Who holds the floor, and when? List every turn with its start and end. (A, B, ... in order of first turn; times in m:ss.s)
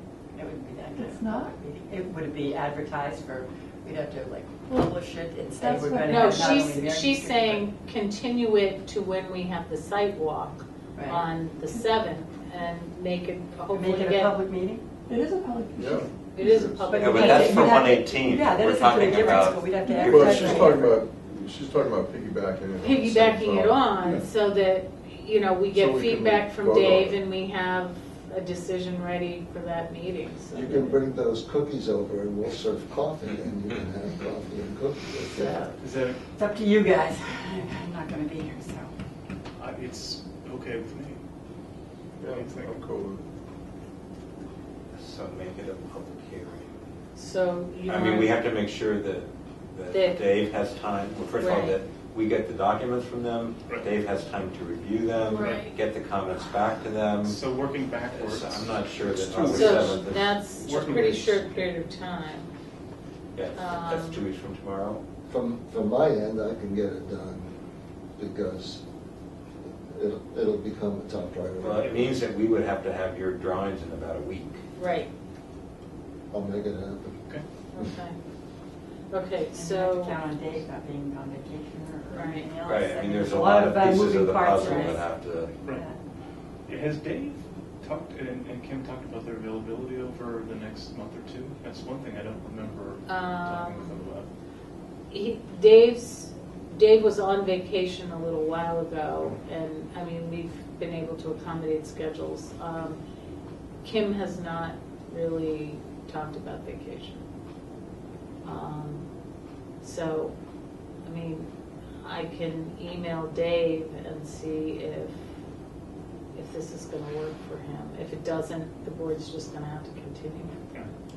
0:00.4-0:07.7 A
0:00.9-0:01.6 B
0:04.7-0:06.7 B
0:06.1-0:14.4 C
0:11.0-0:11.3 A
0:11.7-0:12.0 B
0:13.7-0:14.8 A
0:15.1-0:16.0 B
0:15.8-0:16.1 D
0:16.3-0:17.9 C
0:16.4-0:16.8 E
0:16.9-0:20.7 A
0:17.0-0:21.0 F
0:19.7-0:20.2 B
0:20.0-0:24.3 D
0:22.8-0:31.0 C
0:25.7-0:27.2 D
0:30.5-0:35.6 E
0:35.3-0:35.8 C
0:35.8-0:36.2 G
0:36.4-0:38.9 A
0:39.6-0:41.2 G
0:42.2-0:43.2 D
0:42.3-0:42.8 G
0:44.9-0:46.8 F
0:47.2-0:48.4 C
0:47.9-0:57.4 F
0:49.9-0:50.2 C
0:51.4-0:51.8 C
0:55.2-0:55.8 C
0:57.2-1:01.6 G
0:58.1-1:00.4 F
0:59.5-1:02.5 C
1:03.4-1:05.0 F
1:03.6-1:04.2 C
1:05.3-1:07.5 E
1:08.2-1:08.8 E
1:09.9-1:12.0 E
1:11.6-1:14.6 F
1:14.8-1:15.1 C
1:16.3-1:17.2 E
1:17.7-1:18.2 C
1:19.1-1:20.2 C
1:19.5-1:25.0 A
1:22.1-1:22.5 C
1:22.6-1:25.6 F
1:24.6-1:24.9 C
1:25.7-1:26.0 A
1:26.7-1:34.3 G
1:33.1-1:34.0 C
1:35.1-1:43.0 C
1:43.8-1:47.2 C
1:48.4-1:49.1 C
1:49.8-1:50.4 C
1:51.0-1:51.5 C
1:52.0-1:55.2 C
1:56.4-2:00.6 C